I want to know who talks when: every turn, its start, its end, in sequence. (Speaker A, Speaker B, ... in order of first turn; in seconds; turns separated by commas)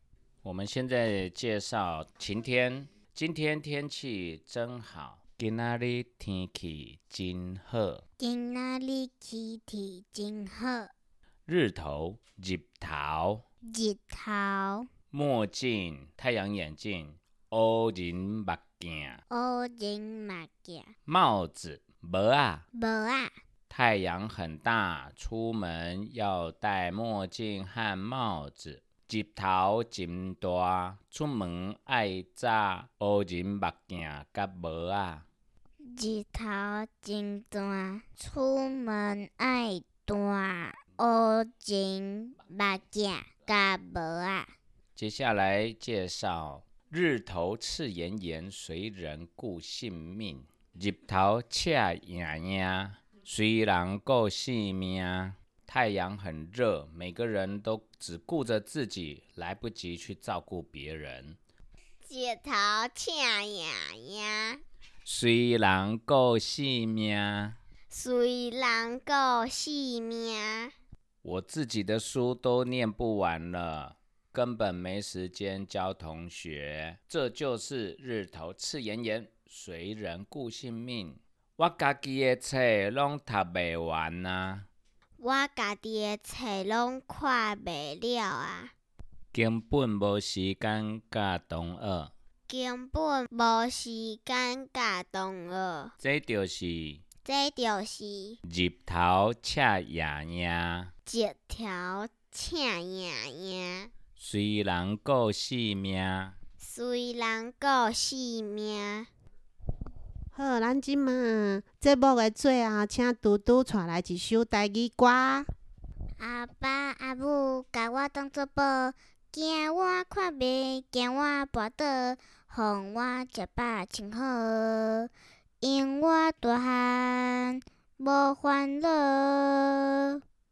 Speaker A: 0.4-8.0, Speaker B: 8.2-10.9, Speaker A: 11.5-13.4, Speaker B: 13.7-14.9, Speaker A: 15.1-19.2, Speaker B: 19.3-20.9, Speaker A: 21.1-22.6, Speaker B: 22.7-23.3, Speaker A: 23.7-35.2, Speaker B: 35.8-44.5, Speaker A: 45.0-61.4, Speaker B: 62.0-64.6, Speaker A: 65.0-67.6, Speaker B: 67.9-70.7, Speaker A: 71.2-84.7, Speaker B: 85.2-88.7, Speaker A: 89.3-92.1, Speaker B: 92.5-95.9, Speaker A: 96.0-97.0, Speaker B: 97.2-98.4, Speaker A: 98.5-100.9, Speaker B: 101.1-103.9, Speaker A: 104.2-106.3, Speaker B: 106.6-109.1, Speaker C: 110.3-115.5, Speaker B: 116.2-125.1, Speaker B: 125.6-130.2